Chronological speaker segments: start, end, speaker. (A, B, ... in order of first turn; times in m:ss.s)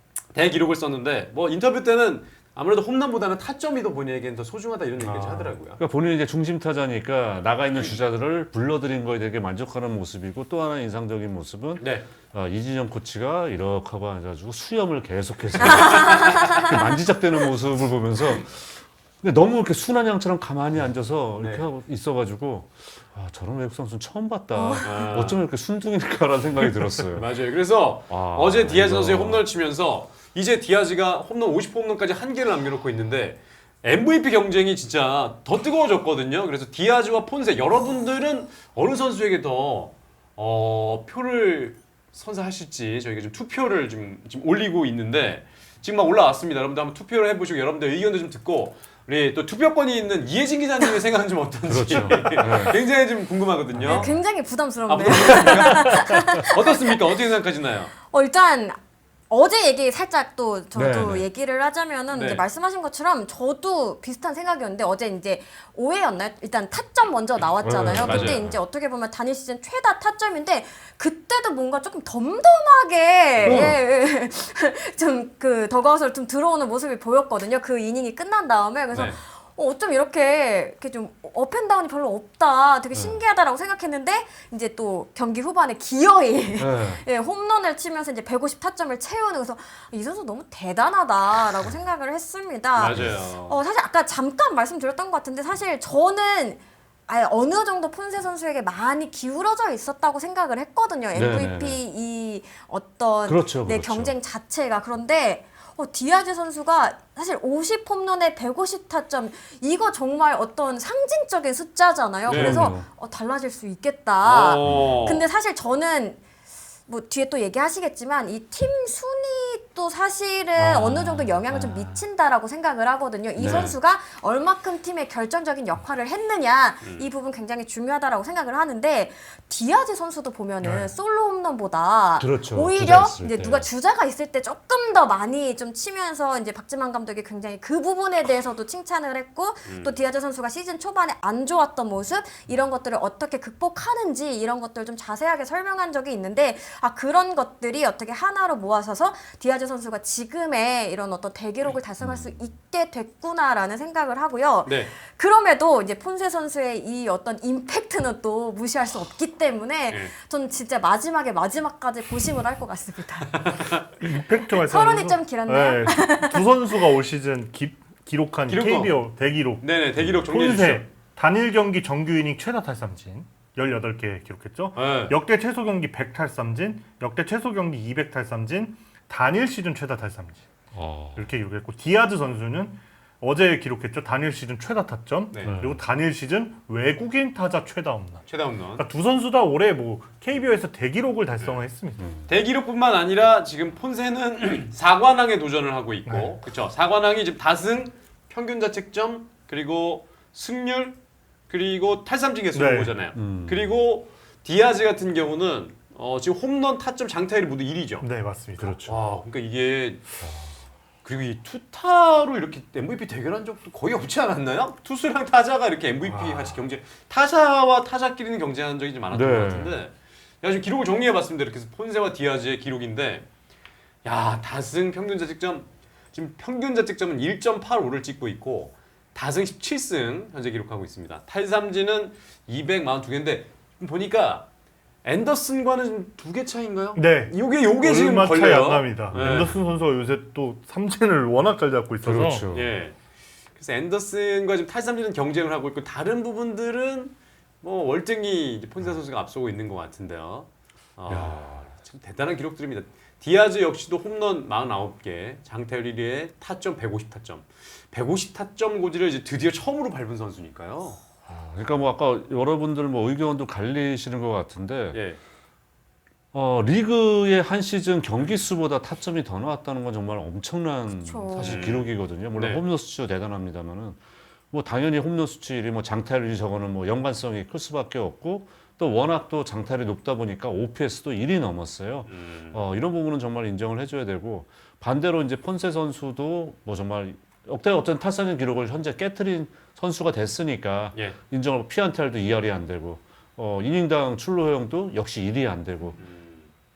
0:00.3-0:05.8 A
0:05.0-0:27.3 B
0:11.8-0:12.1 A
0:15.6-0:16.7 C
0:15.7-0:16.2 A
0:21.4-0:21.7 A
0:24.5-0:24.9 C
0:24.8-0:25.4 A
0:26.6-0:54.1 A
0:28.1-0:29.5 B
0:51.7-0:52.8 B
0:53.8-0:54.2 B
0:53.8-0:56.8 C
0:54.9-0:57.9 A
0:58.1-0:58.8 C
0:59.3-1:56.2 C
1:00.8-1:01.3 B
1:02.1-1:02.4 A
1:07.6-1:08.6 B
1:07.9-1:08.4 A
1:13.4-1:13.8 B
1:13.4-1:13.8 A
1:18.9-1:19.2 A
1:26.6-1:27.0 B
1:32.8-1:33.6 A
1:41.1-1:41.8 B
1:43.2-1:44.1 B
1:52.3-1:52.7 A
1:52.3-1:52.9 B
1:54.2-1:55.3 A
1:54.6-1:55.1 B
1:56.9-2:43.5 C
2:00.6-2:02.0 B
2:03.4-2:03.7 B
2:03.4-2:03.8 A
2:06.8-2:07.1 A
2:10.6-2:10.9 D
2:12.2-2:13.7 B
2:19.7-2:20.0 A
2:32.0-2:32.4 B
2:34.6-2:34.9 A
2:43.3-2:43.8 A
2:44.0-3:00.4 D
2:44.5-2:46.9 C
2:48.5-2:49.0 A
2:49.6-2:50.8 A
2:54.8-2:55.2 A
3:00.7-3:01.3 B
3:01.2-3:12.1 D
3:05.3-3:05.6 A
3:05.4-3:05.8 B
3:08.3-3:08.8 A
3:12.0-3:12.3 B
3:12.3-3:21.0 A
3:16.1-3:16.4 D
3:21.5-3:28.0 A
3:22.5-3:22.9 D
3:23.1-3:23.8 B
3:28.0-3:29.0 D
3:28.8-3:30.1 A
3:30.2-3:30.5 B
3:31.0-3:43.3 A
3:36.0-3:36.6 D
3:39.1-3:39.8 B
3:44.0-3:54.5 A
3:55.0-3:59.6 A
3:57.0-4:02.5 D
3:59.1-3:59.6 B
4:02.0-4:02.8 B
4:02.5-4:03.0 A
4:03.6-4:21.0 A
4:11.1-4:11.6 B
4:21.3-4:25.0 B
4:24.9-4:25.2 A
4:26.3-4:34.0 B
4:30.9-4:31.6 C
4:31.4-4:32.6 A
4:34.5-4:56.0 B
4:42.1-4:42.6 A
4:56.0-4:56.5 A